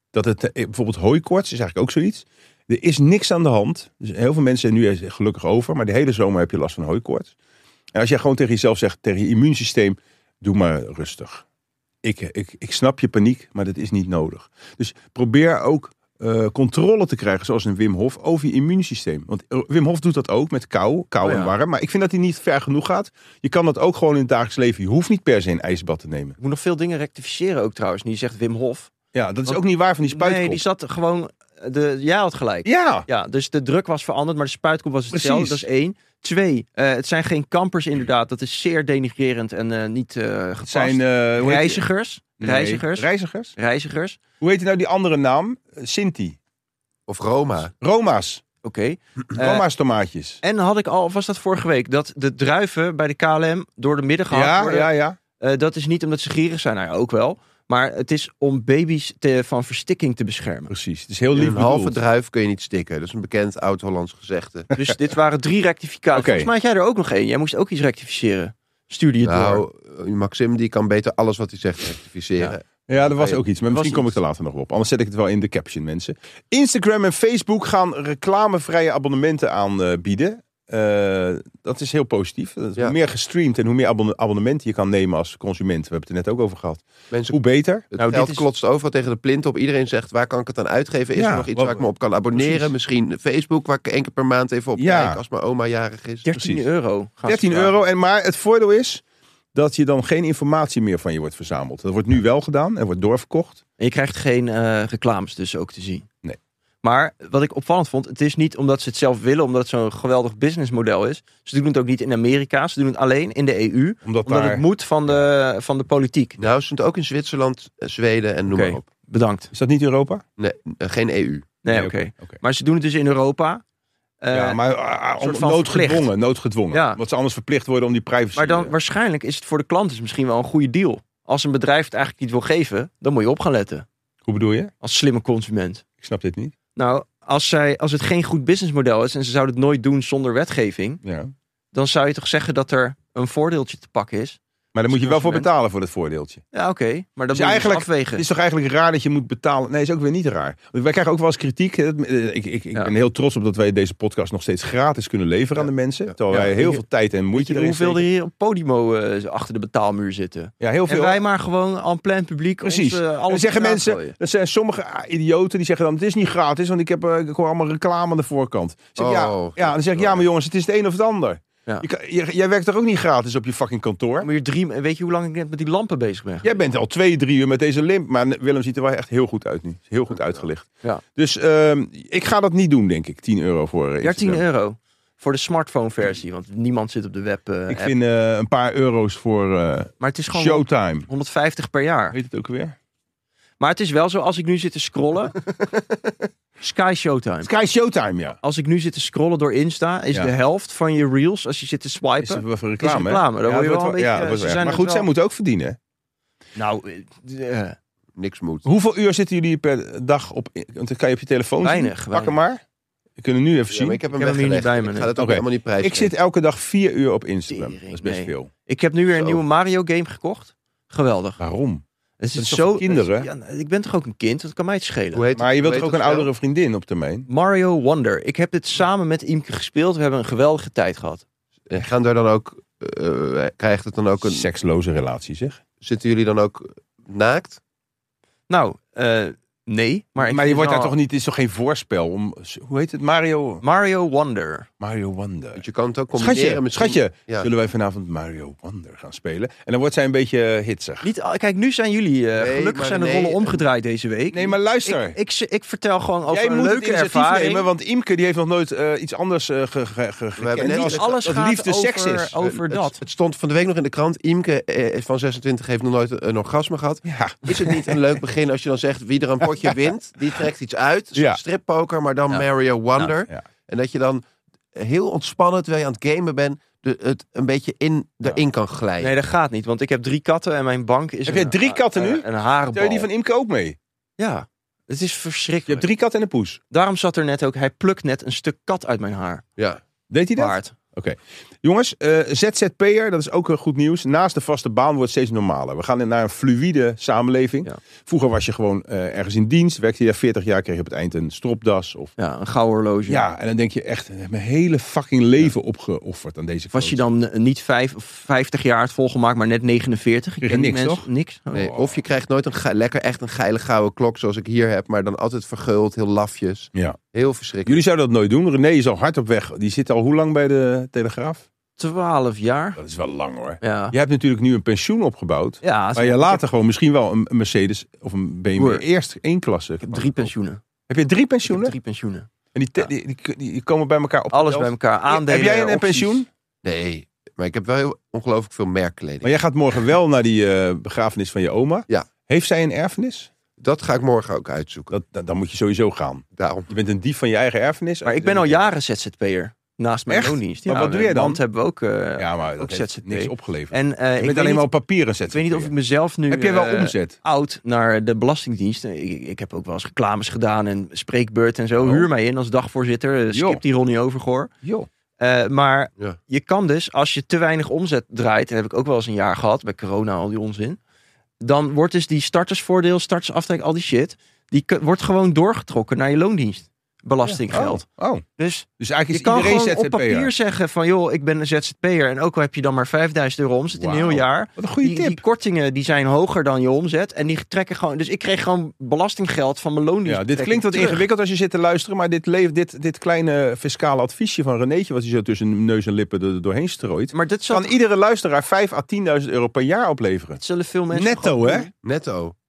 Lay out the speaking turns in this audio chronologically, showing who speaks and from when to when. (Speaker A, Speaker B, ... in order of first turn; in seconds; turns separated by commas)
Speaker A: 0.1-7.3, Speaker A: 7.9-11.4, Speaker A: 12.0-26.4, Speaker B: 21.2-21.5, Speaker B: 26.4-28.9, Speaker A: 29.1-30.6, Speaker B: 29.5-44.2, Speaker A: 32.6-33.1, Speaker A: 35.1-35.6, Speaker A: 40.7-41.8, Speaker A: 42.4-43.5, Speaker A: 44.4-46.4, Speaker C: 47.1-47.7, Speaker A: 47.8-48.4, Speaker B: 48.6-49.6, Speaker A: 49.4-50.4, Speaker B: 50.4-60.7, Speaker A: 54.3-55.2, Speaker A: 60.7-62.0, Speaker C: 61.3-64.7, Speaker B: 64.7-69.6, Speaker A: 66.1-66.5, Speaker C: 69.2-73.4, Speaker A: 72.9-87.9, Speaker B: 73.7-74.2, Speaker C: 87.1-87.4, Speaker C: 87.9-96.2, Speaker B: 88.0-88.4, Speaker A: 91.1-91.8, Speaker A: 92.3-92.7, Speaker A: 94.8-95.2, Speaker B: 96.2-97.7, Speaker A: 96.3-96.7, Speaker A: 97.2-99.0, Speaker A: 99.5-103.6, Speaker B: 103.8-106.1, Speaker B: 106.8-116.5, Speaker A: 114.0-115.2, Speaker C: 116.4-118.8, Speaker B: 118.5-119.5, Speaker A: 119.5-120.2, Speaker C: 120.4-121.5, Speaker B: 121.6-123.6, Speaker A: 121.7-122.4, Speaker B: 124.2-124.6, Speaker A: 124.3-128.7, Speaker B: 125.2-126.1, Speaker B: 126.7-127.0, Speaker B: 128.3-133.9, Speaker A: 134.2-134.7, Speaker B: 134.8-135.8, Speaker A: 136.0-136.5, Speaker B: 136.8-141.0, Speaker A: 141.0-141.3, Speaker B: 141.7-145.5, Speaker A: 144.7-146.4, Speaker B: 146.5-148.2, Speaker A: 147.3-158.1, Speaker B: 156.3-164.1, Speaker A: 160.6-161.2, Speaker A: 162.6-174.3, Speaker C: 169.0-170.2, Speaker B: 174.2-176.6, Speaker A: 176.4-184.4, Speaker B: 184.0-187.9, Speaker A: 187.7-191.1, Speaker B: 190.0-192.2, Speaker A: 192.1-192.8, Speaker B: 193.6-195.4, Speaker B: 196.6-197.5, Speaker A: 197.4-198.4, Speaker B: 198.4-205.1, Speaker A: 202.2-205.8, Speaker B: 206.6-207.8, Speaker C: 208.2-208.7, Speaker A: 208.6-212.6, Speaker B: 211.6-212.4, Speaker A: 213.2-214.0, Speaker C: 213.7-216.1, Speaker B: 214.1-215.1, Speaker A: 215.2-218.5, Speaker B: 217.5-221.4, Speaker A: 221.4-221.8, Speaker B: 222.2-225.2, Speaker A: 222.4-223.3, Speaker C: 225.1-226.3, Speaker A: 225.4-227.3, Speaker B: 227.3-231.2, Speaker C: 231.7-234.4, Speaker A: 234.2-235.6, Speaker C: 235.8-237.6, Speaker B: 238.5-240.9, Speaker A: 240.2-243.6, Speaker B: 243.6-244.7, Speaker A: 244.8-245.6, Speaker C: 245.6-247.5, Speaker A: 246.2-251.1, Speaker B: 251.0-257.7, Speaker C: 252.4-253.6, Speaker A: 254.3-255.2, Speaker A: 256.3-262.8, Speaker C: 260.4-261.2, Speaker B: 260.6-263.0, Speaker C: 262.4-274.2, Speaker A: 267.1-268.0, Speaker A: 271.1-271.4, Speaker C: 274.7-279.1, Speaker B: 279.0-283.1, Speaker A: 281.3-283.8, Speaker B: 284.2-285.9, Speaker A: 285.7-286.6, Speaker B: 286.7-289.4, Speaker A: 290.1-302.1, Speaker B: 290.4-290.8, Speaker B: 302.2-303.2, Speaker A: 303.1-307.0, Speaker B: 306.7-311.7, Speaker A: 310.4-311.1, Speaker C: 311.5-317.8, Speaker A: 317.7-321.5, Speaker B: 321.8-322.8, Speaker A: 322.8-330.3, Speaker B: 323.6-323.9, Speaker B: 325.6-326.4, Speaker B: 328.6-328.8, Speaker B: 329.8-330.6, Speaker A: 330.9-331.7, Speaker B: 331.4-332.9, Speaker A: 332.5-336.3, Speaker B: 334.3-336.2, Speaker C: 336.6-339.3, Speaker A: 339.2-343.3, Speaker C: 343.6-344.9, Speaker A: 344.9-348.6, Speaker C: 346.4-346.7, Speaker B: 348.0-354.7, Speaker A: 350.1-351.4, Speaker A: 352.2-355.7, Speaker B: 355.3-364.5, Speaker A: 356.3-357.2, Speaker A: 361.8-362.1, Speaker A: 363.3-363.6, Speaker A: 364.6-364.9, Speaker B: 365.2-370.8, Speaker B: 371.4-377.8, Speaker A: 377.2-378.2, Speaker B: 378.4-391.0, Speaker A: 378.8-380.3, Speaker A: 383.8-385.2, Speaker A: 390.1-400.4, Speaker B: 397.1-397.7, Speaker B: 400.4-401.7, Speaker A: 400.9-401.7, Speaker C: 401.8-402.3